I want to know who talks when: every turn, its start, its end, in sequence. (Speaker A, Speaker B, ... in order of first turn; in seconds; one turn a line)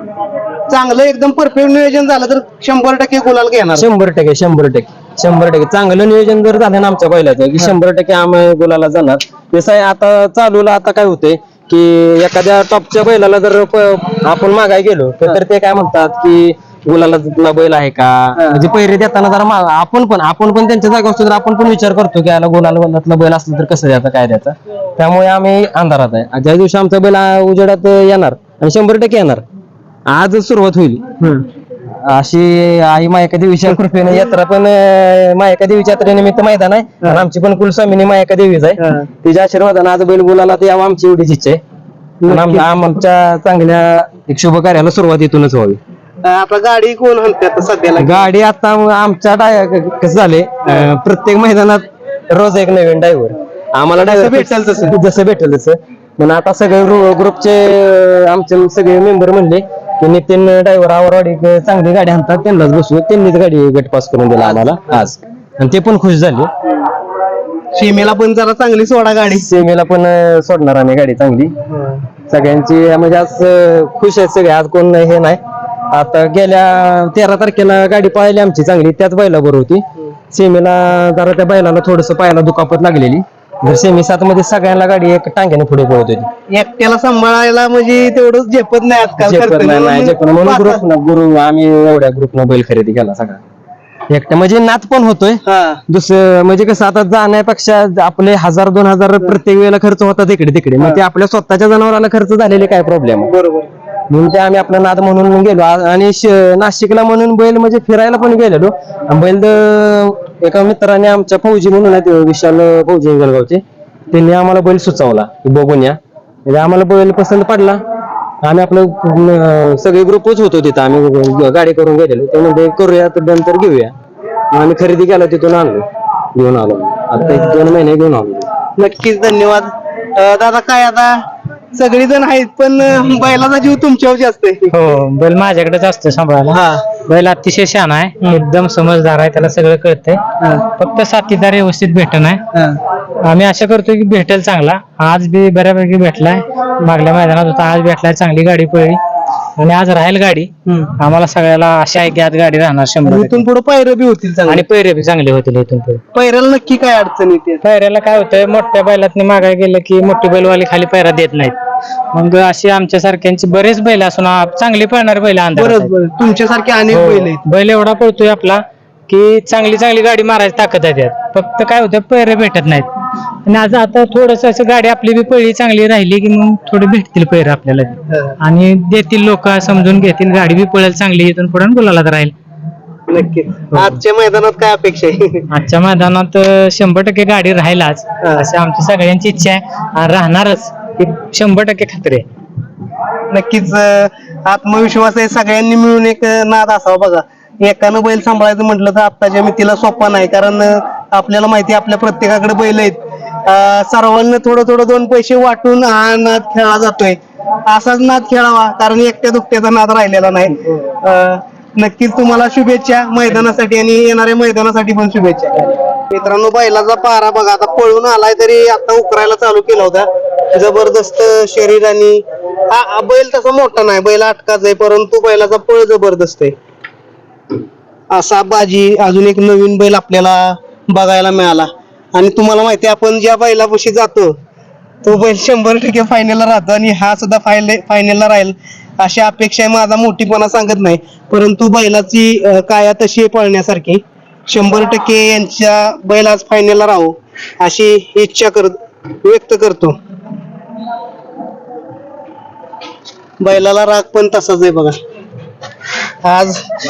Speaker A: 0.7-3.9
Speaker B: 3.8-29.4
Speaker A: 18.4-18.7
Speaker B: 30.1-31.2
Speaker B: 32.0-41.6
Speaker A: 38.8-39.1
Speaker A: 42.2-42.7
Speaker B: 42.3-45.8
Speaker A: 46.2-48.3
Speaker B: 48.0-66.5
Speaker A: 50.7-50.9
Speaker A: 54.0-55.0
Speaker A: 64.4-65.1
Speaker A: 67.8-69.5
Speaker B: 69.3-71.5
Speaker A: 71.7-72.0
Speaker B: 72.3-75.4
Speaker B: 75.9-86.3
Speaker A: 86.5-90.8
Speaker B: 89.2-93.4
Speaker B: 94.1-103.3
Speaker A: 95.5-95.8
Speaker A: 103.3-103.7
Speaker B: 104.1-117.8
Speaker B: 118.4-124.0
Speaker B: 124.5-128.5
Speaker A: 127.2-127.7
Speaker A: 128.8-131.2
Speaker A: 131.8-134.7
Speaker C: 134.7-140.2
Speaker A: 136.5-136.8
Speaker C: 140.8-142.4
Speaker A: 142.5-142.8
Speaker C: 143.2-149.0
Speaker C: 149.6-153.4
Speaker A: 150.7-150.9
Speaker A: 153.1-154.6
Speaker C: 154.5-156.0
Speaker A: 156.2-157.6
Speaker C: 157.6-161.6
Speaker C: 162.1-165.9
Speaker A: 165.6-167.4
Speaker C: 166.9-172.9
Speaker C: 173.5-182.3
Speaker A: 178.1-178.4
Speaker A: 183.1-185.5
Speaker C: 185.5-192.2
Speaker A: 188.2-188.5
Speaker A: 193.3-226.6
Speaker A: 228.1-234.3
Speaker A: 235.0-250.0
Speaker A: 253.4-255.0
Speaker A: 256.2-256.6